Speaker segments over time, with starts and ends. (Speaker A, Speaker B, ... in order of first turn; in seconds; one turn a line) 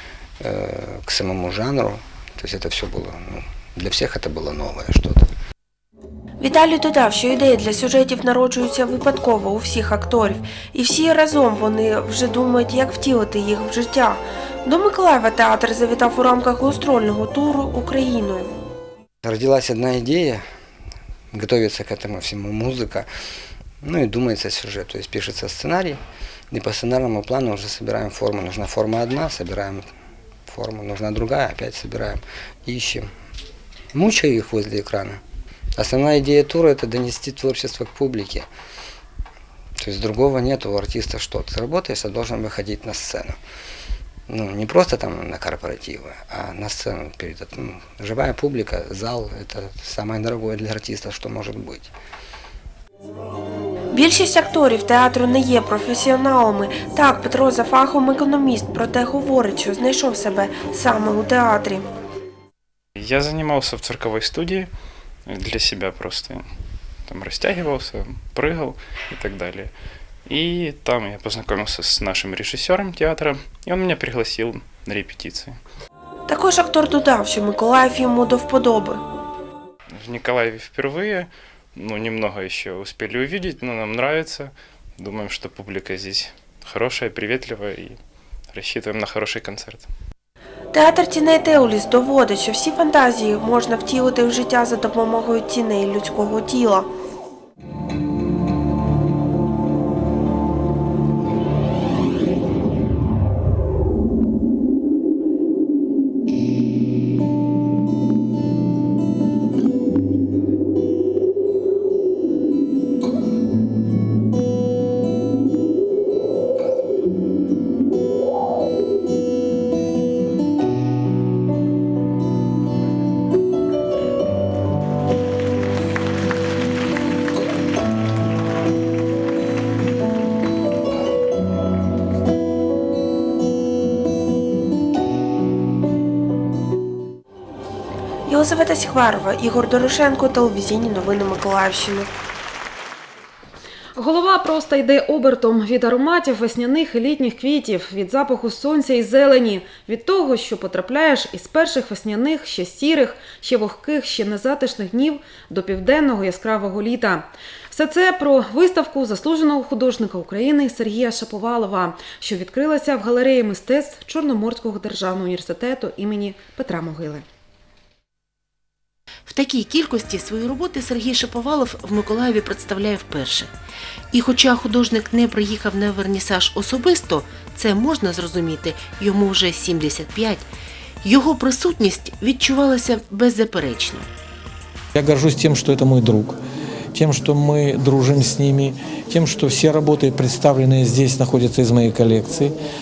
Speaker A: 0.4-5.3
Speaker B: 6.4-18.5
Speaker A: 19.2-20.4
Speaker A: 21.3-23.1
Speaker A: 23.8-26.0
Speaker A: 26.5-29.9
Speaker A: 30.5-33.1
Speaker A: 33.9-35.2
Speaker A: 35.8-38.5
Speaker A: 39.8-43.4
Speaker A: 44.3-51.9
Speaker B: 53.9-61.9
Speaker C: 62.9-64.7
Speaker C: 65.2-66.5
Speaker C: 67.1-75.6
Speaker B: 76.3-79.0
Speaker C: 79.9-89.9
Speaker B: 90.7-96.9
Speaker B: 138.3-142.1
Speaker D: 144.0-167.2
Speaker E: 169.3-173.5
Speaker E: 174.1-180.5
Speaker E: 181.0-184.1
Speaker F: 184.9-186.4
Speaker F: 186.9-192.6